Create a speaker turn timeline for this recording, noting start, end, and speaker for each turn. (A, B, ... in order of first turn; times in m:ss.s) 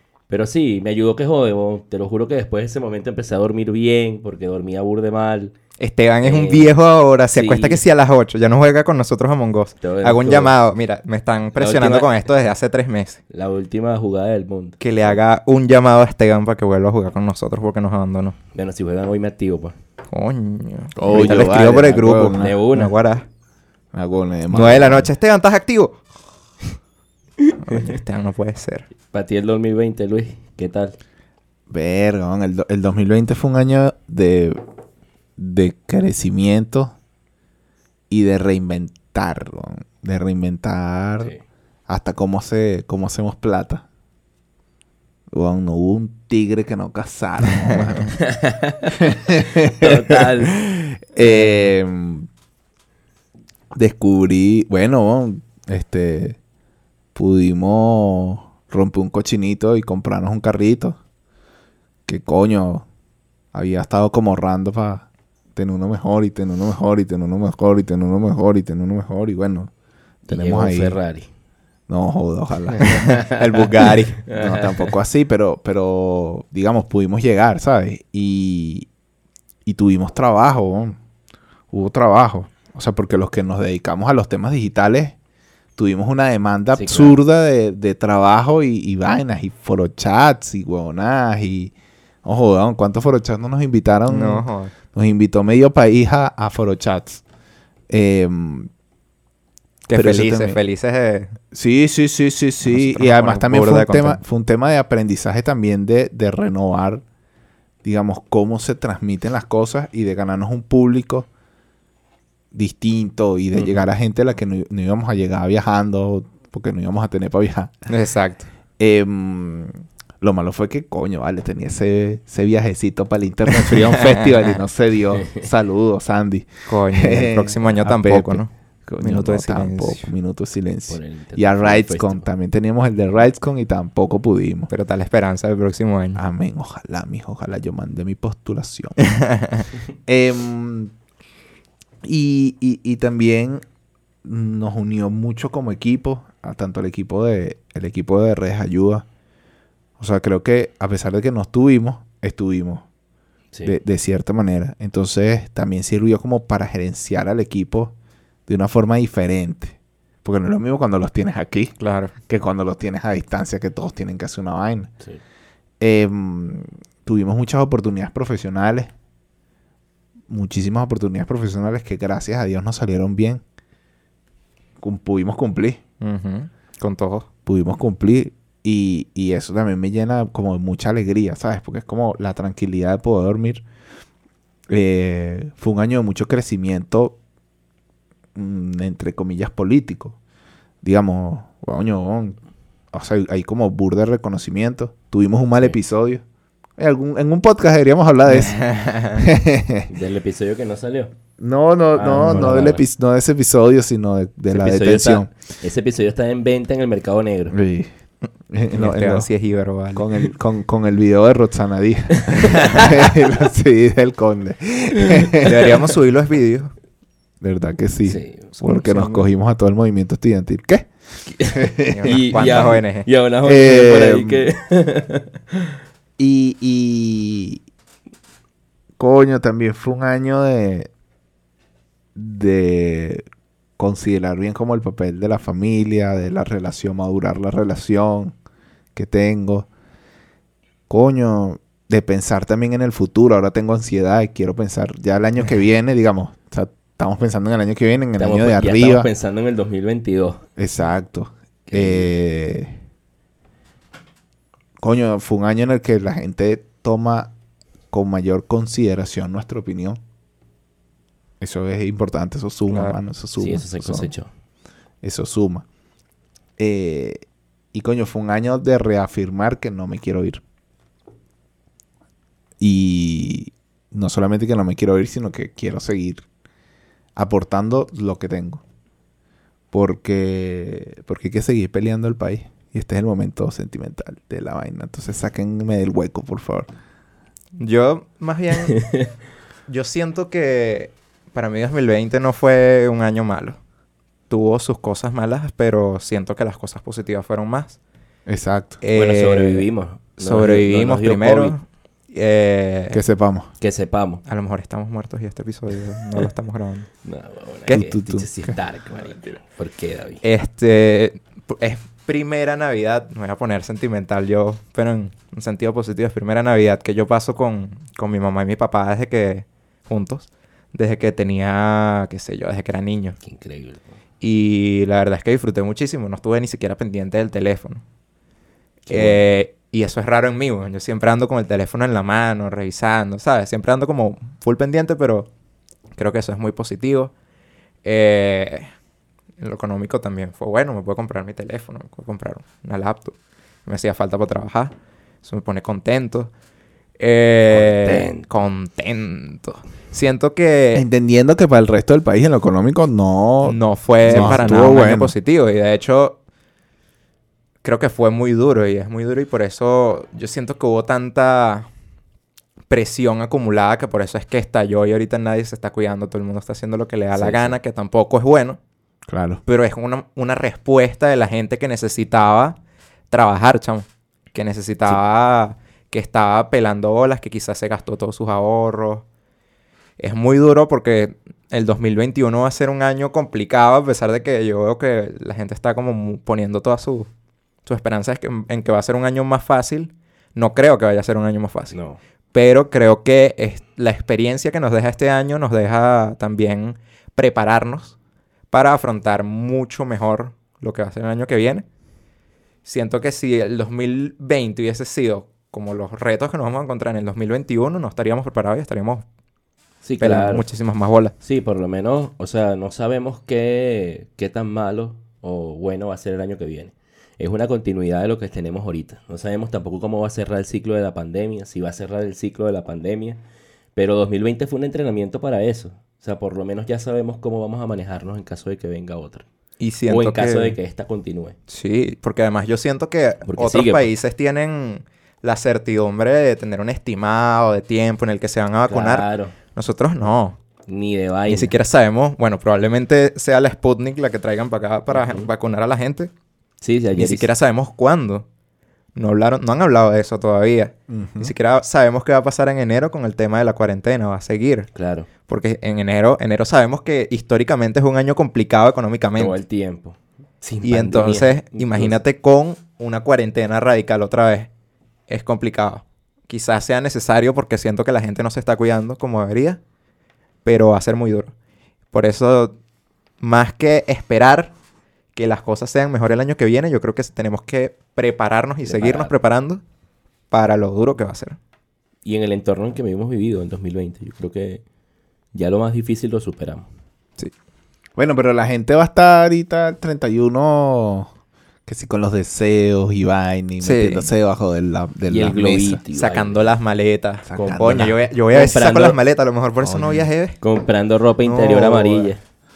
0:00.3-0:05.5 A
0:05.8-0:13.2 B
0:06.2-0:06.7 A
0:07.3-0:07.8 A
0:09.8-0:10.6 A
0:11.6-0:12.2 A
0:13.3-0:15.2 A
0:14.8-0:18.4 B
0:18.5-0:19.8 A
0:20.1-0:23.2 B
0:21.0-0:22.6 C
0:22.3-0:22.9 A
0:23.9-0:25.1 C
0:24.5-0:26.0 B
0:27.6-0:28.9 B
0:29.1-0:31.0 A
0:31.7-0:34.6 C
0:35.4-0:36.9 C
0:38.1-0:41.3 C
0:41.9-0:43.8 C
0:45.3-0:48.2 C
0:48.2-0:50.6 A
0:49.0-0:52.3 C
0:51.2-0:51.6 B
0:53.7-0:56.4 C
0:57.1-1:01.0 C
1:02.1-1:02.8 C
1:03.5-1:09.7 C
1:10.3-1:11.3 A
1:10.3-1:11.0 C
1:11.9-1:13.2 C
1:12.8-1:14.2 B
1:13.0-1:13.3 A
1:14.2-1:14.9 A
1:14.3-1:18.9 C
1:19.6-1:21.0 C
1:21.7-1:25.1 C
1:25.8-1:31.7 C
1:26.7-1:27.1 A
1:32.2-1:37.2 C
1:34.1-1:34.7 B
1:37.9-1:38.7 C
1:39.9-1:41.4 B
1:39.9-1:40.6 C
1:41.5-1:47.0 C
1:42.6-1:44.2 B
1:47.8-1:51.3 C
1:52.5-1:57.7 C
1:57.9-1:58.5 B
1:58.8-2:14.7 C
2:06.7-2:10.0 B
2:10.9-2:12.3 A
2:14.7-2:16.2 B
2:16.2-2:19.0 C
2:19.0-2:19.7 B
2:20.0-2:20.9 C
2:22.0-2:23.6 C
2:24.2-2:29.0 C
2:30.0-2:32.8 C
2:33.6-2:37.9 C
2:38.5-2:41.7 C
2:41.8-2:42.1 B
2:42.3-2:44.9 C
2:45.8-2:48.9 C
2:50.3-2:53.4 C
2:54.8-2:55.8 C
2:56.0-2:57.3 B
2:57.4-3:03.6 C
3:04.7-3:07.2 C
3:08.3-3:10.2 C
3:10.8-3:12.4 C
3:12.9-3:16.2 C
3:16.8-3:18.6 C
3:18.3-3:19.3 B
3:19.1-3:19.9 C
3:19.9-3:21.1 A
3:21.4-3:25.3 C
3:21.9-3:22.8 A
3:24.5-3:27.6 A
3:27.5-3:27.9 C
3:28.5-3:29.3 C
3:28.7-3:30.0 B
3:29.9-3:35.7 C
3:32.2-3:33.2 A
3:35.0-3:35.3 A
3:35.4-3:36.7 B
3:37.4-3:40.9 C
3:38.0-3:38.5 A
3:38.6-3:39.3 B
3:41.4-3:45.3 A
3:41.4-3:42.8 C
3:41.9-3:43.1 B
3:43.4-3:44.4 C
3:46.2-3:47.6 C
3:49.0-3:50.9 C
3:52.1-3:53.2 C
3:53.8-3:58.3 C
3:58.9-3:59.7 C
4:00.9-4:09.1 C
4:08.2-4:10.4 A
4:10.6-4:12.7 C
4:11.7-4:12.1 A
4:14.8-4:17.3 C
4:17.9-4:20.0 C
4:21.4-4:24.1 C
4:22.7-4:23.0 B
4:23.4-4:24.3 A
4:25.0-4:25.6 C
4:26.6-4:27.2 C
4:27.7-4:30.4 C
4:32.6-4:36.2 C
4:37.2-4:38.6 C
4:39.7-4:46.7 C
4:47.6-4:48.8 B
4:48.7-4:49.0 A
4:49.7-4:53.6 B
4:54.3-4:57.8 B
4:58.2-4:58.8 C
4:58.8-4:59.6 B
4:58.9-5:01.5 A
5:00.2-5:03.0 B
5:02.9-5:03.5 C
5:03.6-5:04.2 A
5:04.2-5:06.9 B
5:07.0-5:10.2 A
5:07.7-5:08.6 C
5:10.2-5:23.2 B
5:23.2-5:23.9 A
5:24.2-5:27.8 B
5:28.9-5:29.2 A
5:28.9-5:35.3 B
5:36.0-5:37.1 B
5:37.8-5:38.7 B
5:39.4-5:46.3 B
5:47.0-5:50.8 B
5:47.5-5:48.2 A
5:50.7-5:55.1 C
5:53.4-5:56.2 B
5:54.0-5:54.6 A
5:57.6-6:01.7 B
6:02.7-6:08.6 B
6:07.1-6:07.6 A
6:09.1-6:09.4 C
6:09.4-6:12.6 B
6:13.1-6:19.0 B
6:20.0-6:27.1 B
6:27.6-6:31.7 B
6:31.7-6:32.0 A
6:32.3-6:37.9 B
6:38.5-6:41.6 B
6:42.6-6:49.0 B
6:49.8-6:50.4 A
6:50.0-6:51.1 B
6:51.2-7:03.2 A
7:03.7-7:09.2 A
7:09.6-7:10.6 B
7:09.9-7:11.4 A
7:11.5-7:20.4 B
7:13.2-7:13.9 A
7:18.7-7:19.3 A
7:20.7-7:21.5 A
7:21.3-7:26.1 B
7:24.9-7:25.3 A
7:26.6-7:27.3 A
7:27.0-7:28.2 B
7:29.0-7:34.7 B
7:30.9-7:31.3 C
7:34.7-7:35.1 A
7:35.3-7:39.4 B
7:39.2-7:42.0 A
7:40.6-7:44.5 B
7:45.1-7:49.6 B
7:50.4-7:51.3 B
7:51.9-7:52.6 B
7:53.2-7:54.5 B
7:55.1-7:59.6 B
7:58.6-7:59.1 A
8:00.3-8:01.4 B
8:02.0-8:04.6 A
8:05.3-8:06.6 A
8:08.0-8:11.1 C
8:11.6-8:15.8 C
8:13.6-8:14.1 B
8:15.1-8:16.5 A
8:15.9-8:20.4 B
8:17.2-8:17.9 C
8:17.4-8:19.0 A
8:19.6-8:20.1 C
8:20.4-8:22.2 A
8:21.2-8:22.1 B